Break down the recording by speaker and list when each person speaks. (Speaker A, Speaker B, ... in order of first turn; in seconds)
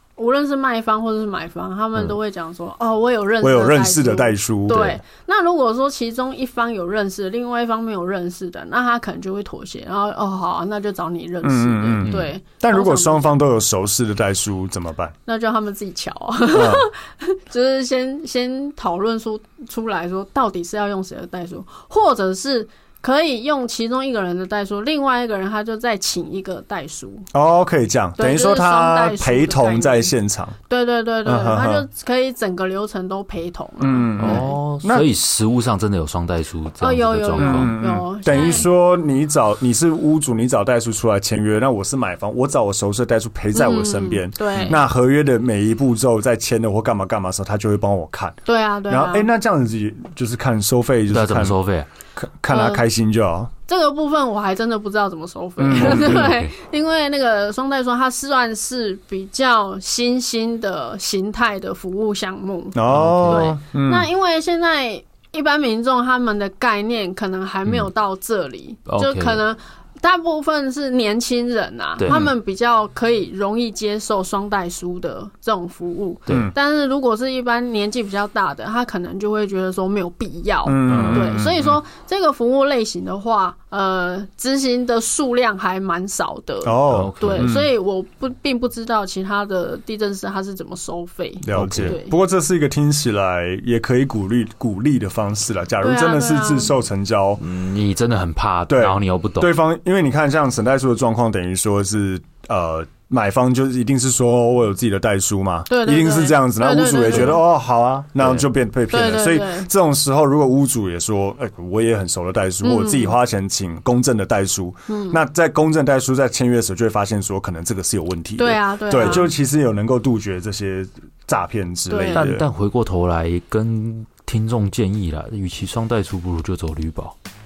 Speaker A: 0.2-13.3, 15.2-27.3, 28.2-30.1, 30.7-34.5, 36.8-38.7, 43.5-44.8, 48.4-49.3, 52.5-52.8, 53.7-92.1, 95.8-96.7, 105.7-107.4, 108.9-109.7, 112.6-113.1, 114.9-115.2, 118.4-119.3, 121.9-122.3
Speaker B: 3.4-5.0, 11.4-15.1, 16.5-16.9, 27.3-30.5, 31.2-31.9, 33.8-35.1, 37.4-51.6, 52.1-53.5, 55.6-56.3, 62.7-64.1, 76.3-76.5, 80.6-81.6, 86.6-87.7, 91.4-97.4, 98.7-122.4
Speaker C: 12.0-12.3, 34.2-37.8, 51.1-51.9, 55.8-56.5, 62.9-63.5, 68.9-69.4, 72.0-72.2, 80.9-81.7, 86.9-87.6, 91.5-92.0, 97.4-99.5, 122.1-127.1